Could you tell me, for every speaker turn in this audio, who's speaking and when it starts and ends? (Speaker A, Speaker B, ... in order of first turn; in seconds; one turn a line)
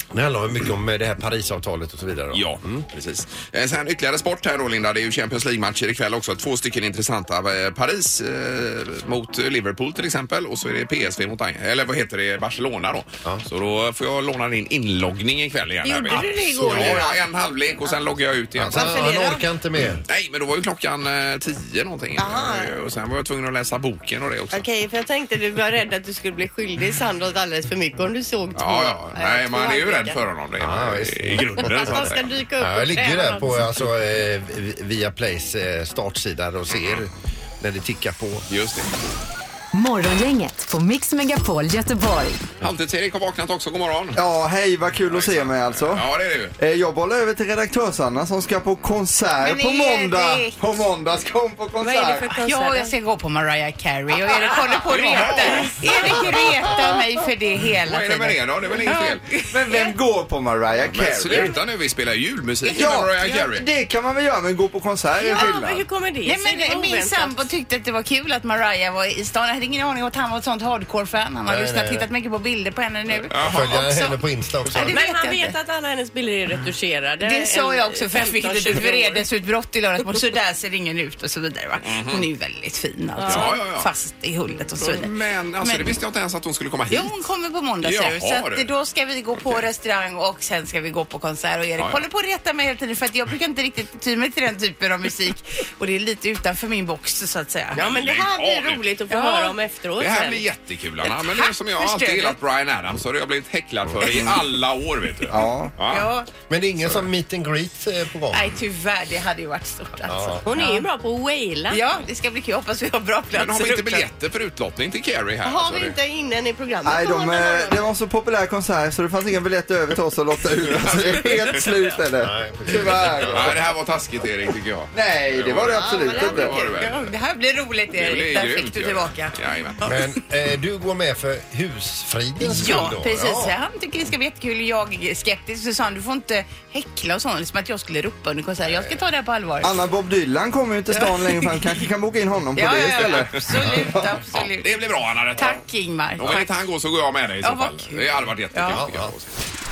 Speaker A: 0.1-2.9
Speaker B: 2.3-19.2
Speaker C: 15.8-17.2
Speaker A: 16.2-17.1
Speaker A: 18.6-20.0
Speaker C: 18.7-19.4
Speaker B: 20.1-24.6
Speaker C: 22.2-22.7
Speaker C: 24.5-30.2
Speaker B: 28.5-32.4
Speaker A: 30.6-32.0
Speaker C: 31.6-33.6
Speaker A: 32.6-38.5
Speaker B: 36.7-37.0
Speaker B: 38.5-38.9
Speaker D: 39.7-42.5
Speaker B: 42.6-44.2
Speaker E: 44.1-46.0
Speaker B: 45.0-46.5
Speaker E: 46.6-52.4
Speaker F: 49.4-50.6
Speaker C: 51.8-52.9
Speaker F: 52.3-59.9
Speaker B: 54.9-56.3
Speaker B: 57.9-59.3
Speaker E: 59.5-61.5
Speaker B: 60.9-63.6
Speaker E: 62.7-65.8
Speaker C: 65.2-67.5
Speaker F: 66.2-74.2
Speaker A: 71.5-72.1
Speaker B: 73.3-73.8
Speaker A: 73.3-74.9
Speaker F: 74.7-75.5
Speaker C: 74.9-79.2
Speaker F: 77.2-85.9
Speaker B: 81.8-82.2
Speaker C: 83.2-83.6
Speaker B: 83.3-83.9
Speaker B: 84.8-87.1
Speaker F: 86.9-97.8
Speaker B: 87.8-88.6
Speaker C: 97.7-100.4
Speaker B: 97.8-98.9
Speaker F: 99.1-99.5
Speaker B: 100.0-106.1
Speaker F: 101.0-102.4
Speaker E: 105.3-105.8
Speaker F: 105.9-106.3
Speaker A: 106.5-108.5
Speaker F: 108.3-110.9
Speaker A: 110.1-110.4
Speaker C: 110.4-111.8
Speaker F: 111.7-114.1
Speaker B: 113.3-116.0
Speaker C: 115.5-117.9
Speaker E: 116.8-123.7
Speaker B: 120.7-121.9
Speaker A: 122.2-123.5
Speaker B: 123.3-127.1
Speaker E: 124.9-126.7
Speaker C: 125.7-126.5
Speaker F: 126.2-130.1
Speaker B: 127.9-129.8
Speaker A: 129.8-133.5
Speaker F: 132.4-139.8
Speaker E: 139.6-144.0
Speaker F: 140.9-141.5
Speaker F: 142.6-144.7
Speaker B: 144.3-145.6
Speaker F: 145.3-146.5
Speaker B: 146.2-149.3
Speaker F: 147.4-148.8
Speaker A: 148.7-149.1